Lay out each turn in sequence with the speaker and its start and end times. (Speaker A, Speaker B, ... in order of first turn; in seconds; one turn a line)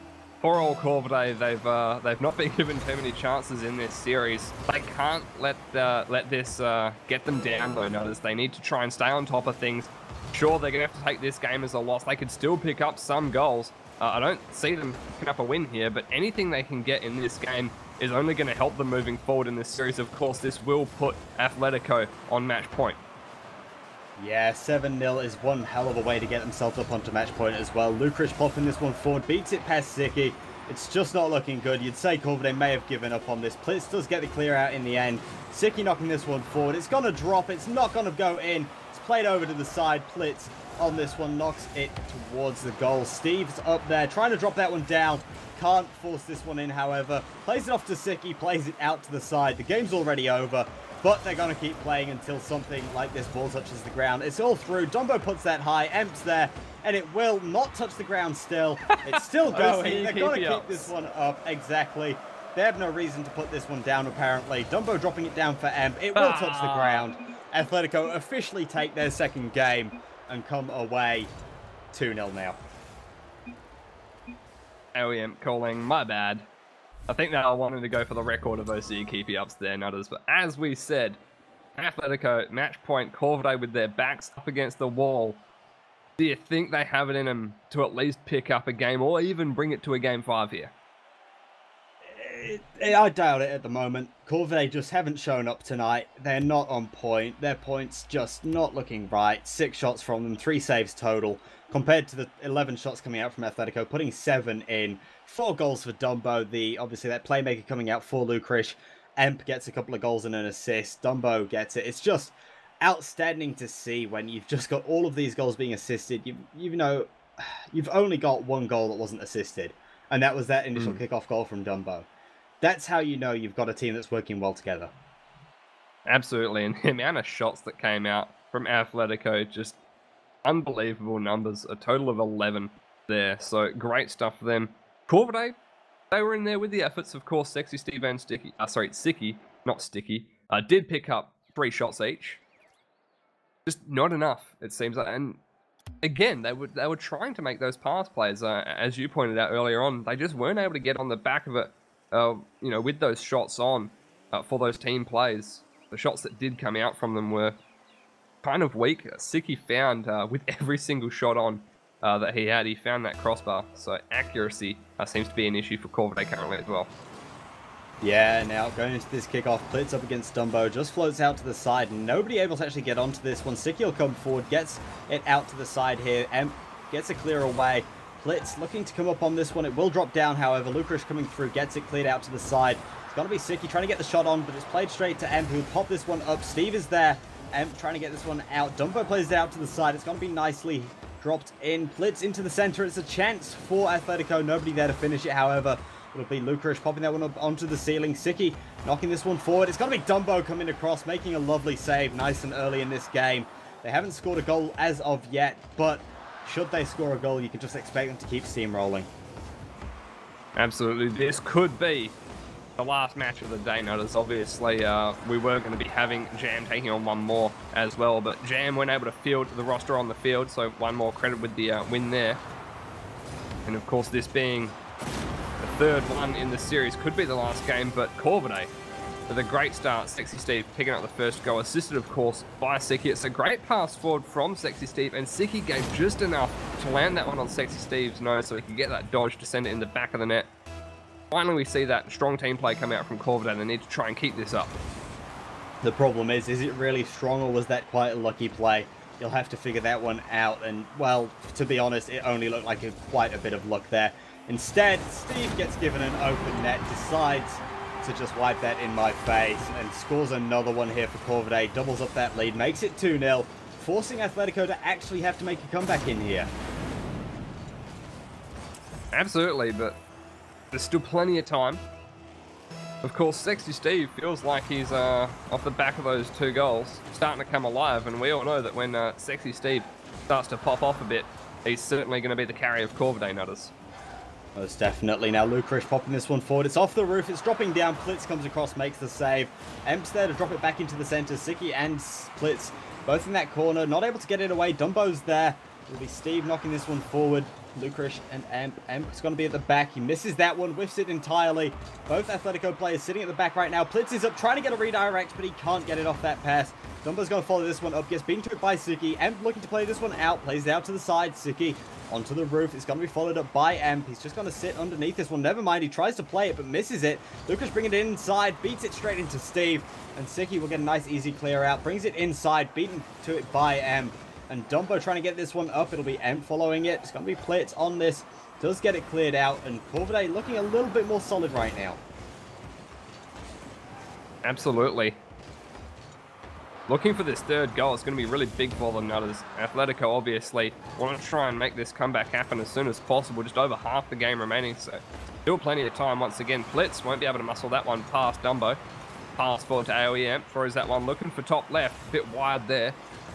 Speaker A: 0.4-23.0
Speaker B: 24.2-71.3
Speaker A: 58.9-60.9
Speaker A: 66.1-67.1
Speaker B: 71.9-72.6
Speaker A: 74.9-76.5
Speaker A: 77.1-81.2
Speaker A: 81.8-85.4
Speaker A: 86.2-90.7
Speaker B: 92.0-122.1
Speaker B: 122.6-124.9
Speaker A: 126.1-129.8
Speaker A: 130.4-135.5
Speaker A: 136.1-142.4
Speaker A: 143.7-145.4
Speaker A: 146.0-157.6
Speaker A: 158.4-166.9
Speaker B: 168.0-209.1
Speaker A: 210.6-212.2
Speaker A: 212.8-222.4
Speaker A: 223.7-224.7
Speaker A: 225.6-228.7
Speaker A: 229.3-240.5
Speaker A: 241.3-244.7
Speaker B: 245.8-266.5
Speaker A: 269.1-269.9
Speaker A: 270.7-271.8
Speaker A: 273.0-283.7
Speaker B: 284.5-332.0
Speaker A: 334.4-335.2
Speaker A: 336.9-348.8
Speaker A: 349.4-353.0